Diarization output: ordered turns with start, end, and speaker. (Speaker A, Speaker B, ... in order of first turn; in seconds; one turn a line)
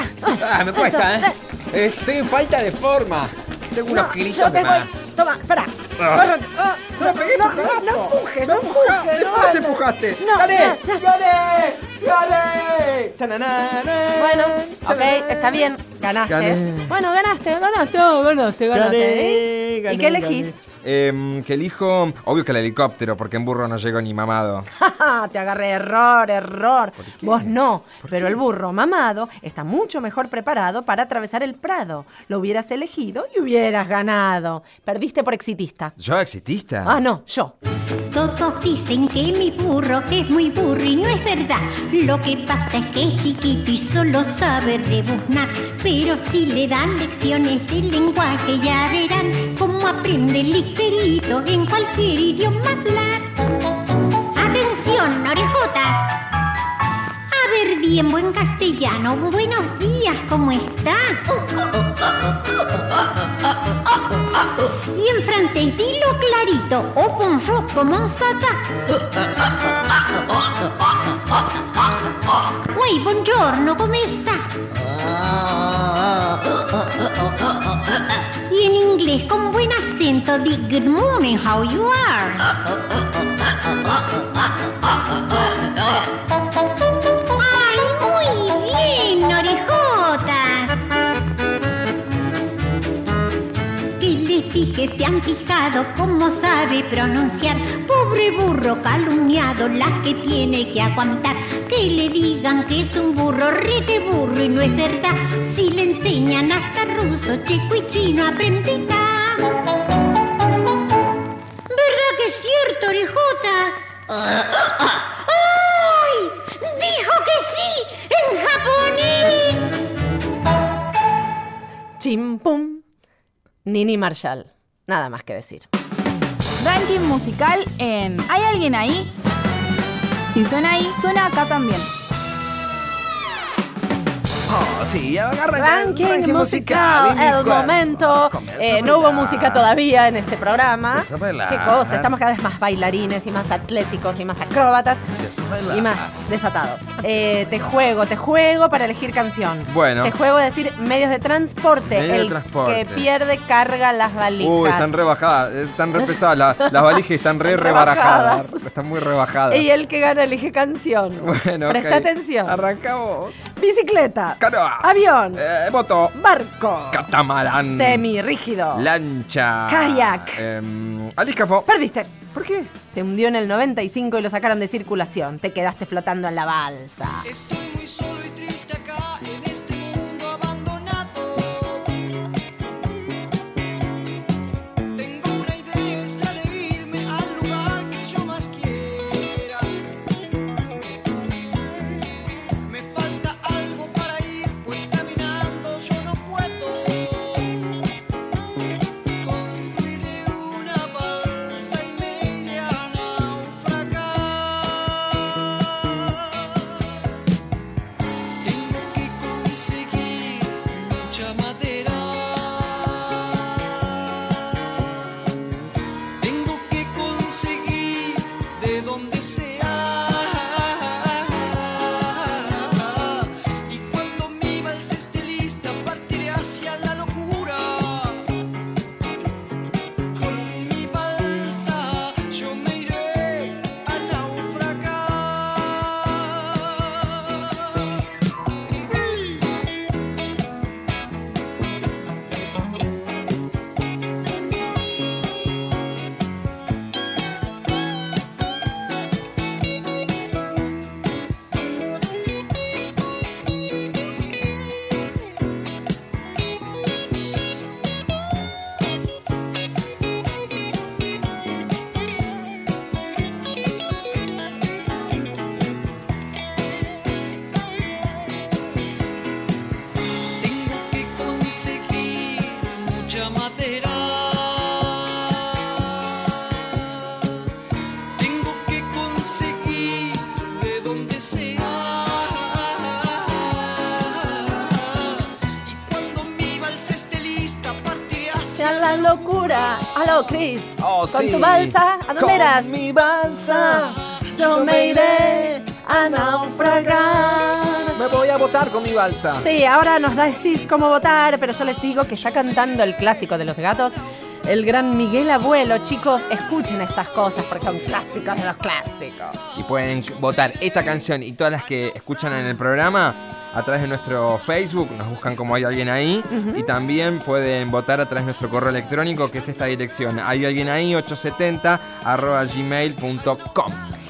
Speaker A: 0.2-1.3
Speaker B: 0.3-5.1
Speaker A: 3.9-11.0
Speaker B: 6.0-6.3
Speaker B: 6.9-15.7
Speaker A: 14.2-20.6
Speaker B: 16.3-16.9
Speaker B: 18.7-24.7
Speaker A: 24.8-35.9
Speaker B: 27.0-28.4
Speaker B: 36.0-37.0
Speaker A: 36.8-37.5
Speaker C: 38.1-53.3
Speaker C: 54.3-56.1
Speaker C: 57.3-61.2
Speaker C: 64.9-68.7
Speaker C: 72.7-74.5
Speaker C: 78.5-82.5
Speaker C: 87.4-90.8
Speaker C: 94.0-109.5
Speaker C: 111.7-119.7
Speaker A: 122.0-122.8
Speaker A: 123.6-125.7
Speaker D: 126.6-129.1
Speaker D: 130.3-131.9
Speaker B: 134.5-139.7
Speaker A: 135.5-145.0
Speaker B: 140.9-142.1
Speaker B: 145.2-146.1
Speaker A: 145.7-155.0
Speaker B: 149.7-150.1
Speaker B: 151.9-153.1
Speaker B: 154.4-159.7
Speaker A: 157.4-158.6
Speaker A: 159.5-162.6
Speaker B: 161.2-163.5
Speaker A: 163.6-165.4
Speaker B: 164.4-166.1
Speaker A: 166.1-168.9
Speaker B: 166.9-168.1
Speaker B: 168.7-171.7
Speaker A: 169.7-170.4
Speaker A: 171.7-172.2
Speaker B: 172.2-172.7
Speaker A: 172.9-177.2
Speaker E: 177.2-181.9
Speaker E: 184.9-189.7
Speaker E: 192.7-197.5
Speaker E: 199.2-206.7
Speaker E: 208.4-215.0
Speaker E: 216.2-228.3
Speaker E: 230.1-237.9
Speaker E: 270.4-277.1
Speaker E: 278.1-289.8
Speaker A: 288.5-292.8
Speaker B: 290.8-299.5
Speaker A: 293.5-298.0
Speaker A: 299.4-309.4
Speaker B: 309.6-323.8
Speaker A: 316.3-316.6